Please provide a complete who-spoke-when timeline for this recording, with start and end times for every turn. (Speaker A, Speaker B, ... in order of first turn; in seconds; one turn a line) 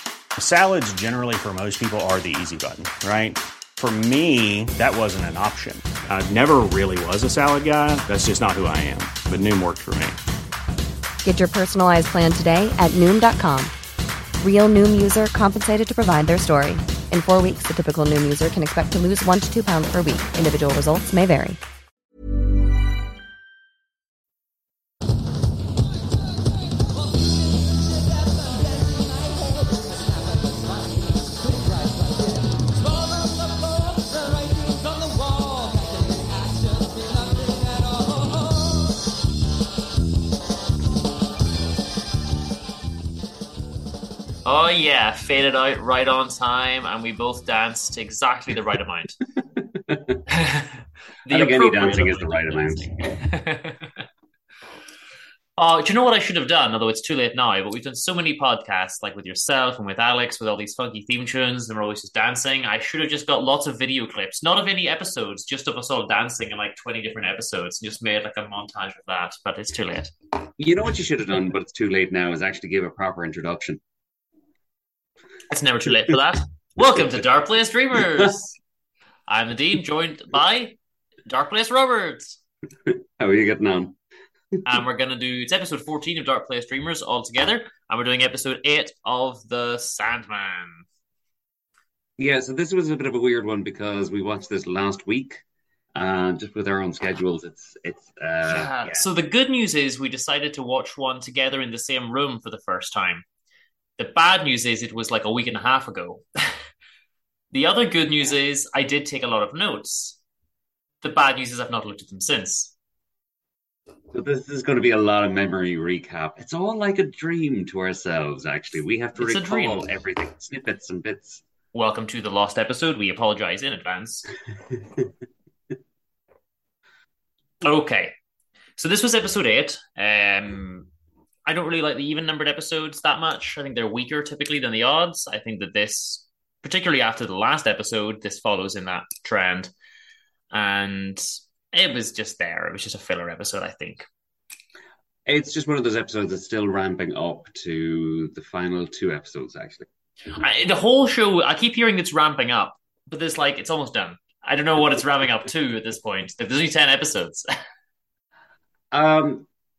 Speaker A: 0.4-10.2
Speaker B: 11.2-13.7
Speaker B: 14.4-21.6
Speaker C: 44.4-49.2
Speaker D: 49.6-50.2
Speaker C: 50.3-54.0
Speaker D: 51.3-53.1
Speaker C: 55.6-70.1
Speaker D: 70.6-73.8
Speaker C: 75.5-78.5
Speaker C: 79.3-82.4
Speaker D: 82.9-84.0
Speaker C: 84.6-90.8
Speaker D: 92.2-95.4
Speaker D: 95.9-99.0
Speaker C: 98.5-103.2
Speaker C: 104.0-106.6
Speaker C: 107.5-110.2
Speaker C: 111.0-112.7
Speaker D: 114.1-121.4
Speaker C: 119.2-119.8
Speaker C: 121.7-124.3
Speaker C: 127.6-128.1
Speaker C: 128.8-130.9
Speaker C: 131.4-139.7
Speaker C: 140.5-144.0
Speaker D: 145.3-149.9
Speaker C: 150.3-157.4
Speaker D: 158.9-159.5